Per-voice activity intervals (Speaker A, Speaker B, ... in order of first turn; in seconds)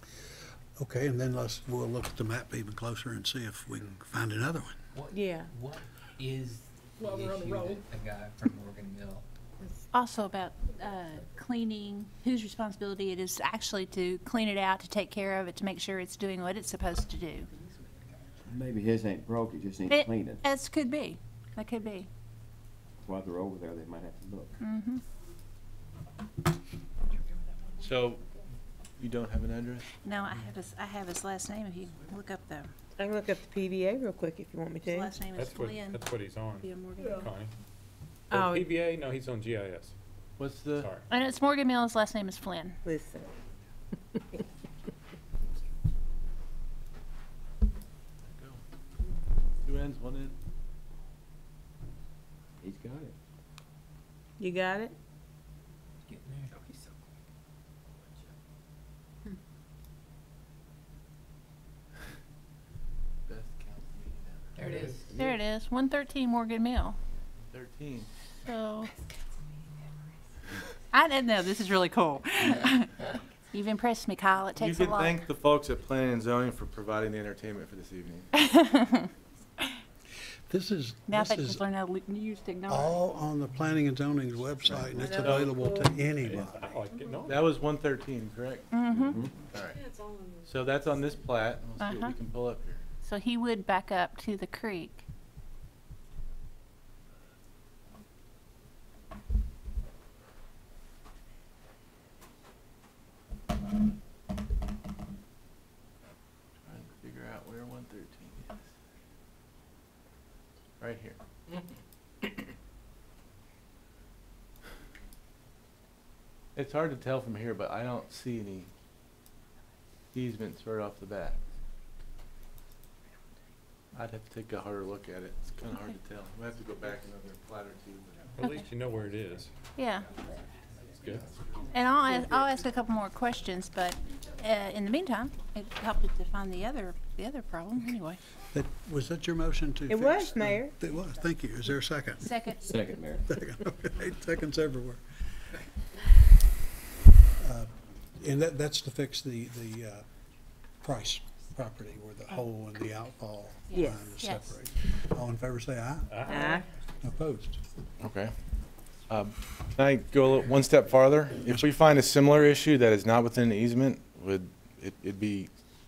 Speaker A: 0.8-4.8, 80.5-81.7, 82.7-86.8, 138.5-142.3, 143.3-145.0, 147.4-150.0, 150.8-156.3, 157.0-157.6
Speaker B: 4.9-9.2, 56.1-56.7, 64.6-65.1
Speaker C: 5.1-5.5, 33.0-35.1, 38.3-38.7, 42.8-43.3, 54.4-55.0, 84.9-85.9, 139.9-140.7, 153.7-154.0, 156.3-156.7
Speaker D: 9.9-17.5, 19.9-22.1, 24.6-25.0, 30.0-32.7, 34.8-37.3, 41.1-42.8, 65.1-67.0, 68.4-68.9, 70.9-75.2, 78.4-79.1, 81.1-83.0, 88.7-89.2, 91.8-92.2, 93.0-95.0, 128.4-128.7, 129.8-130.1, 131.7-138.2, 142.2-142.7, 153.7-154.5
Speaker E: 18.5-20.4, 23.0-24.6, 52.6-53.1, 88.9-89.3, 142.6-143.3
Speaker F: 27.8-28.2, 29.0-29.8, 40.4-40.9, 48.3-48.6, 49.6-50.3, 63.3-65.0, 67.5-68.1, 74.6-78.3, 87.2-88.8, 89.4-89.8, 90.4-92.8, 106.7-108.7, 110.8-111.2, 116.6-118.7, 120.1-121.4, 123.9-128.4, 158.0-158.3, 159.1-165.5
Speaker G: 35.4-37.5, 38.3-39.9, 40.8-41.1, 85.2-87.5, 128.4-129.5, 156.1-156.6